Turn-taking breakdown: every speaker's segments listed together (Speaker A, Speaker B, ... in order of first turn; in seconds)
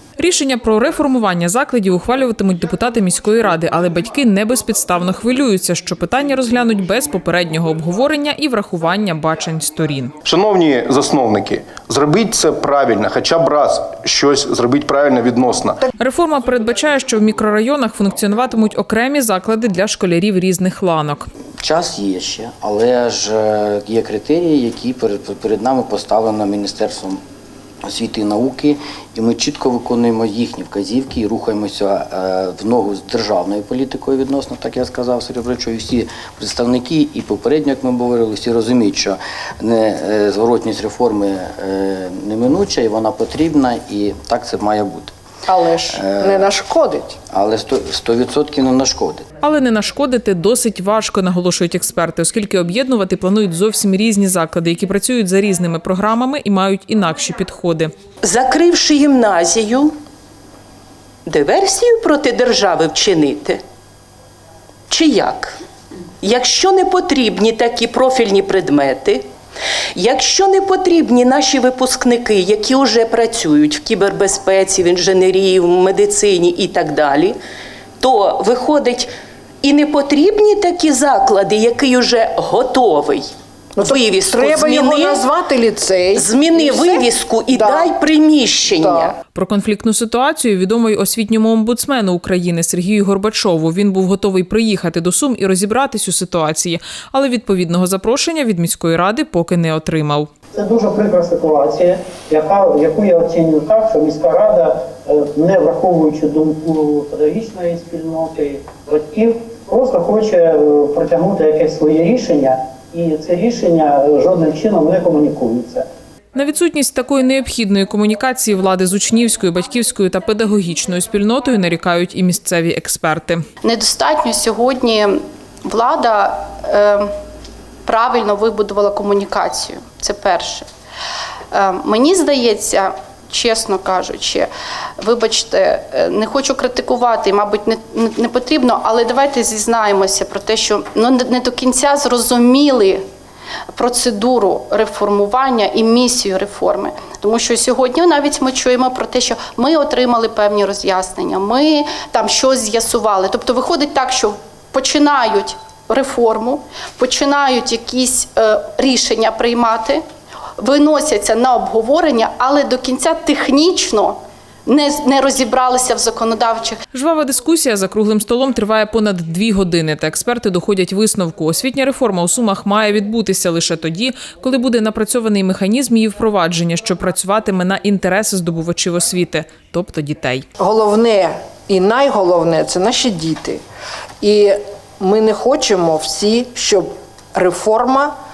Speaker A: 0.2-10.1, 16.0-21.3, 49.4-57.9, 89.3-100.3, 116.3-123.4, 166.9-180.4
Speaker B: 10.2-15.8
Speaker C: 21.6-27.2, 27.8-45.1, 45.9-46.5, 47.3-49.2
Speaker D: 45.5-47.2, 83.8-87.9, 88.7-89.1, 180.6-183.6, 184.2-188.1
Speaker E: 58.2-59.9, 61.2-63.6, 64.9-65.5, 66.2-69.2, 70.0-77.4, 78.0-79.1, 79.6-85.3, 86.1-89.1
Speaker F: 100.5-115.8
Speaker G: 123.6-125.1, 125.6-127.1, 127.8-130.7, 131.5-134.5, 135.0-143.0, 143.8-160.0, 160.6-166.8